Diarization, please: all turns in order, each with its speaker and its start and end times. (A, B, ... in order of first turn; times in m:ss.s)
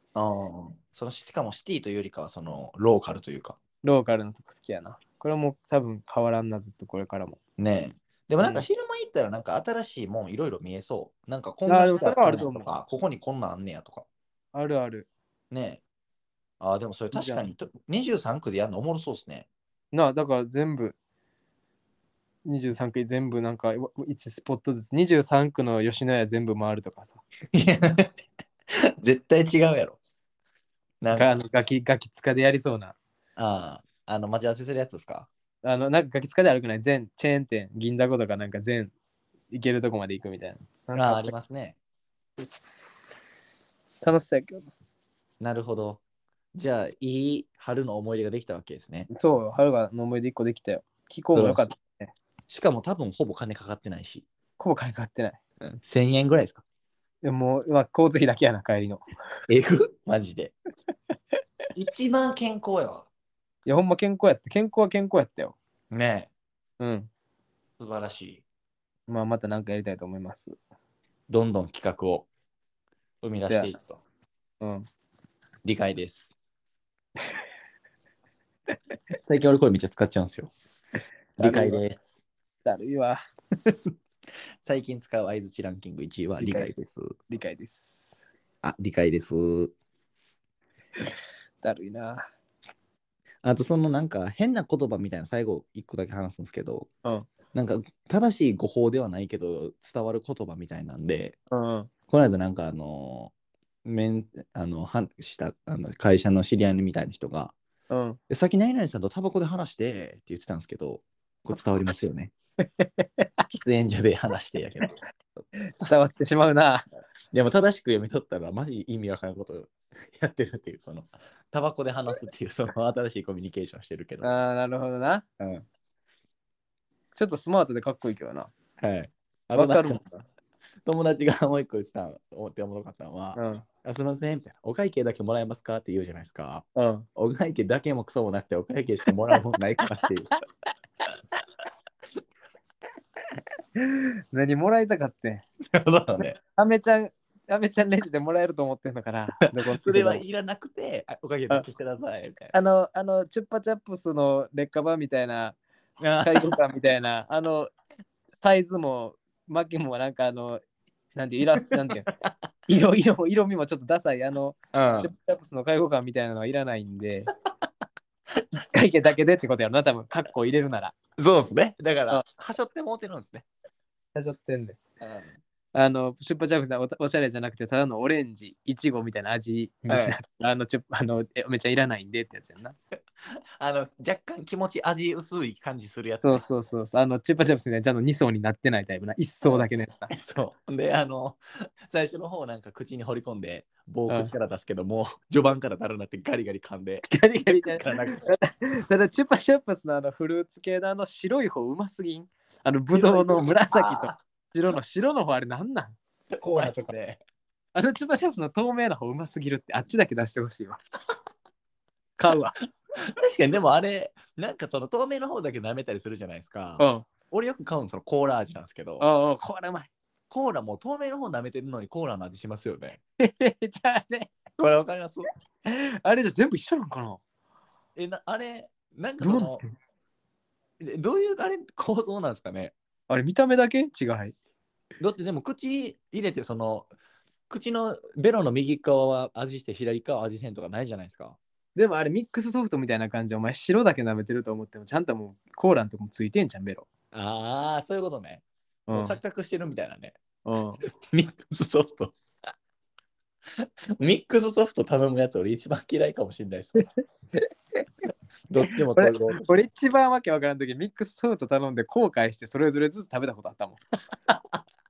0:00.1-0:03.6 A
0:03.8-0:07.4 B
0:07.6-0:14.0 A
0:08.4-0:08.6 B
0:11.7-0:12.7 B
0:14.5-0:15.1 B
0:15.5-0:15.8 A
0:16.6-0:19.5 A
0:17.1-0:17.4 B
0:19.9-0:21.0 B
0:22.4-0:27.2 B
0:27.5-0:28.2 A
0:28.7-0:30.0 A
0:31.0-0:31.4 A
0:31.1-0:33.0 B
0:33.4-0:35.3 A
0:35.6-0:38.9 B
0:39.5-0:41.3 B
0:40.9-0:41.8 A
0:44.0-0:44.7 B
0:45.4-0:46.0 A
0:46.5-0:49.1 A
0:49.1-0:52.1 B
0:51.3-0:51.7 A
0:52.5-0:54.2 A
0:54.6-0:55.4 B
0:55.6-0:56.6 A
0:57.2-0:59.0 B
0:59.5-1:00.5 A
1:01.7-1:03.1 A
1:03.6-1:05.6 B
1:05.9-1:06.3 A
1:06.8-1:07.1 B
1:07.8-1:08.4 A
1:09.1-1:10.6 B
1:11.3-1:12.3 A
1:13.2-1:13.8 A
1:13.5-1:14.0 B
1:14.6-1:14.8 B
1:15.6-1:16.3 A
1:19.2-1:20.5 A
1:21.4-1:21.8 B
1:21.4-1:22.1 A
1:22.6-1:23.2 B
1:23.6-1:23.9 A
1:24.6-1:27.1 A
1:26.4-1:26.7 B
1:27.3-1:28.2 B
1:28.6-1:29.7 A
1:31.6-1:32.3 B
1:33.4-1:36.9 A
1:37.5-1:41.4 A
1:41.5-1:41.9 B
1:42.1-1:43.3 A
1:43.8-1:47.5 A
1:47.9-1:48.2 B
1:48.3-1:52.3 A
1:52.8-1:53.3 B
1:53.5-1:55.4 A
1:55.7-1:56.8 B
1:57.3-2:04.3 A
2:04.2-2:05.2 B
2:05.4-2:05.7 A
2:07.1-2:08.5 B
2:08.8-2:10.0 A
2:09.5-2:10.2 B
2:10.8-2:20.3 A
2:13.3-2:13.6 B
2:16.7-2:17.1 B
2:23.8-2:25.4 B
2:25.7-2:26.4 A
2:26.4-2:30.2 B
2:29.5-2:32.5 A
2:32.5-2:35.6 B
2:36.0-2:36.6 A
2:36.2-2:37.7 B
2:38.4-2:40.6 B
2:41.1-2:42.0 B
2:41.9-2:42.3 A
2:42.7-2:47.3 B
2:44.7-2:45.1 A
2:48.5-2:50.9 B
2:51.2-2:53.4 A
2:54.1-2:54.8 B
2:55.0-2:55.4 A
2:55.7-3:02.8 B
2:59.9-3:00.2 A
3:03.6-3:06.4 A
3:06.2-3:10.1 B
3:09.4-3:18.2 A
3:17.1-3:26.9 B
3:22.9-3:24.2 A
3:26.3-3:27.2 A
3:27.7-3:30.8 B
3:32.2-3:32.5 B
3:33.0-3:39.0 A
3:36.8-3:37.1 B
3:39.0-3:39.9 B
3:40.3-3:43.0 A
3:43.2-3:44.3 B
3:44.6-3:45.3 A
3:45.6-3:47.2 B
3:48.0-3:49.6 A
3:49.2-3:49.6 B
3:50.8-3:52.7 A
3:53.1-3:54.3 B
3:55.0-3:56.9 A
3:57.5-4:01.4 A
4:01.8-4:06.9 B
4:07.1-4:10.2 A
4:08.9-4:09.2 B
4:10.4-4:10.8 B
4:11.1-4:12.2 A
4:13.6-4:16.9 A
4:18.5-4:19.6 A
4:18.6-4:23.8 B
4:24.3-4:24.6 A